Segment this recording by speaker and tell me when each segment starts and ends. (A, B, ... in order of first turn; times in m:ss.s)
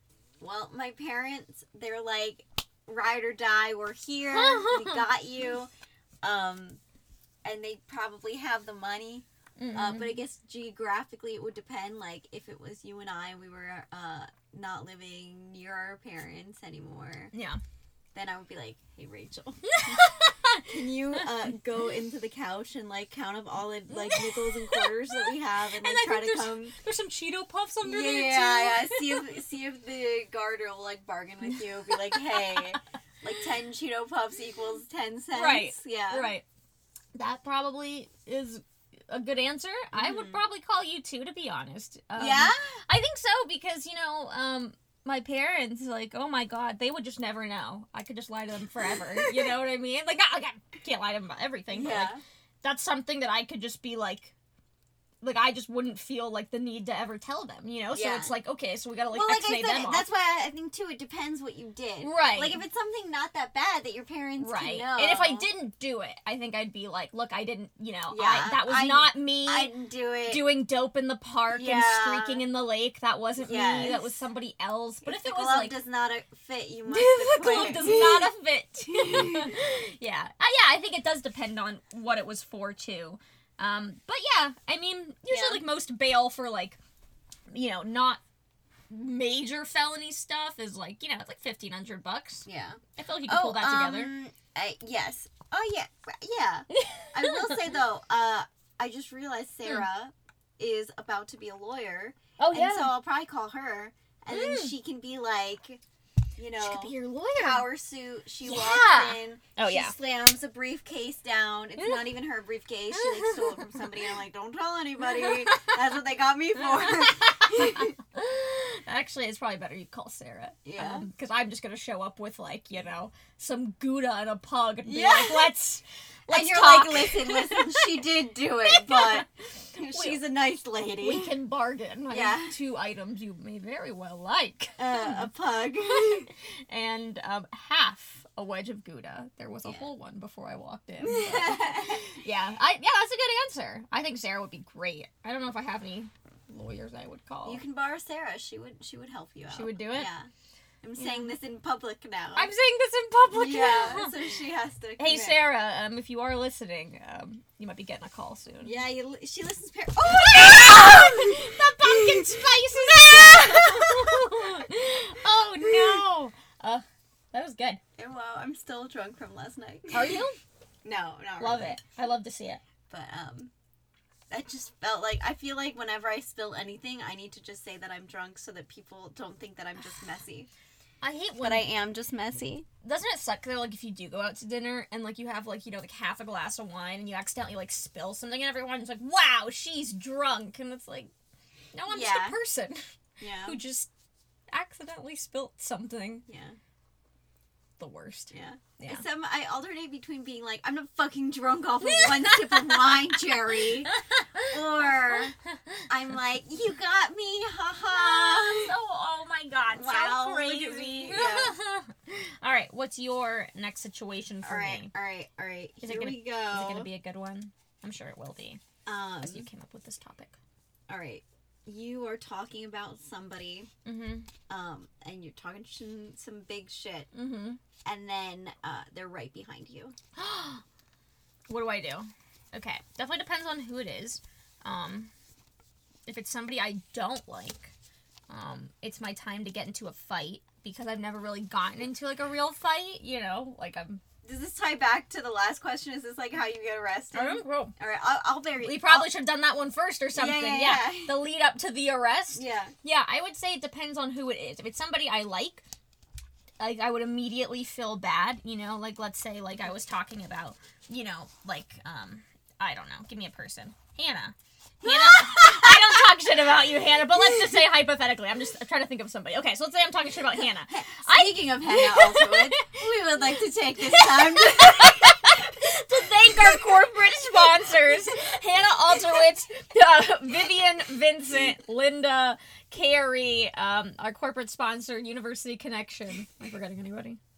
0:00.4-0:05.7 A
0:04.3-0:05.1 B
0:06.2-0:06.8 A
0:07.4-0:17.3 A
0:09.6-0:10.2 B
0:17.3-0:17.6 B
0:18.2-0:26.8 A
0:19.7-0:21.3 B
0:23.9-0:29.3 B
0:27.8-0:36.3 A
0:32.1-0:32.6 B
0:35.3-0:36.4 B
0:37.1-0:54.3 B
0:39.9-0:40.4 A
0:42.2-0:42.8 A
0:48.8-0:49.5 A
0:51.7-0:52.2 A
0:55.2-1:00.1 B
0:57.9-0:58.4 A
0:59.1-1:05.5 A
1:02.0-1:02.6 B
1:04.4-1:09.7 B
1:08.1-1:10.5 A
1:10.3-1:15.8 B
1:11.5-1:12.4 A
1:13.4-1:14.2 A
1:15.0-1:18.3 A
1:16.9-1:26.8 B
1:18.8-1:19.6 A
1:25.3-1:25.6 A
1:27.5-1:28.2 B
1:28.9-1:34.1 B
1:32.5-1:45.8 A
1:36.7-1:37.6 B
1:42.4-1:42.9 B
1:44.3-1:44.8 B
1:46.4-1:58.0 A
1:46.6-1:47.7 B
1:48.4-1:50.0 B
1:51.8-1:52.1 B
1:52.9-1:53.9 B
1:55.0-1:55.8 B
1:56.6-2:08.0 B
2:00.6-2:01.1 A
2:04.8-2:05.5 A
2:06.3-2:11.3 A
2:08.7-2:10.2 B
2:11.0-2:15.3 B
2:12.1-2:12.6 A
2:14.8-2:16.3 A
2:15.9-2:27.6 B
2:21.0-2:22.2 A
2:27.4-2:30.3 A
2:29.5-2:30.1 B
2:30.8-2:32.5 A
2:31.0-2:31.4 B
2:32.4-2:34.2 B
2:33.3-2:35.4 A
2:35.0-2:38.8 B
2:38.6-2:44.6 A
2:40.1-2:47.8 B
2:45.6-2:45.9 A
2:48.0-2:50.2 A
2:49.9-2:50.4 B
2:50.8-2:51.8 A
2:51.4-2:52.6 B
2:52.9-2:53.5 A
2:54.3-3:00.5 A
3:01.0-3:01.7 B
3:01.4-3:02.7 A
3:02.8-3:11.1 B
3:11.7-3:12.8 B
3:11.9-3:12.4 A
3:13.2-3:13.6 A
3:13.4-3:13.9 B
3:14.5-3:16.2 B
3:16.3-3:16.6 A
3:17.8-3:19.0 B
3:18.3-3:25.4 A
3:21.8-3:25.9 B
3:25.9-3:28.8 A
3:27.9-3:34.9 B
3:29.7-3:31.6 A
3:34.4-3:36.9 A
3:35.8-3:38.6 B
3:38.9-3:39.5 A
3:39.2-3:40.4 B
3:40.9-3:43.7 A
3:43.8-3:44.3 B
3:44.5-3:47.1 A
3:47.1-3:47.6 B
3:47.8-3:50.0 A
3:50.2-3:50.6 B
3:51.5-3:55.1 B
3:56.1-3:57.7 B
3:58.3-4:04.0 B
4:04.2-4:09.1 A
4:07.1-4:07.7 B
4:08.6-4:15.6 B
4:10.1-4:11.2 A
4:12.3-4:12.8 A
4:16.6-4:32.9 B
4:24.8-4:26.1 A
4:30.3-4:35.5 A
4:33.8-4:47.2 B
4:37.2-4:37.9 A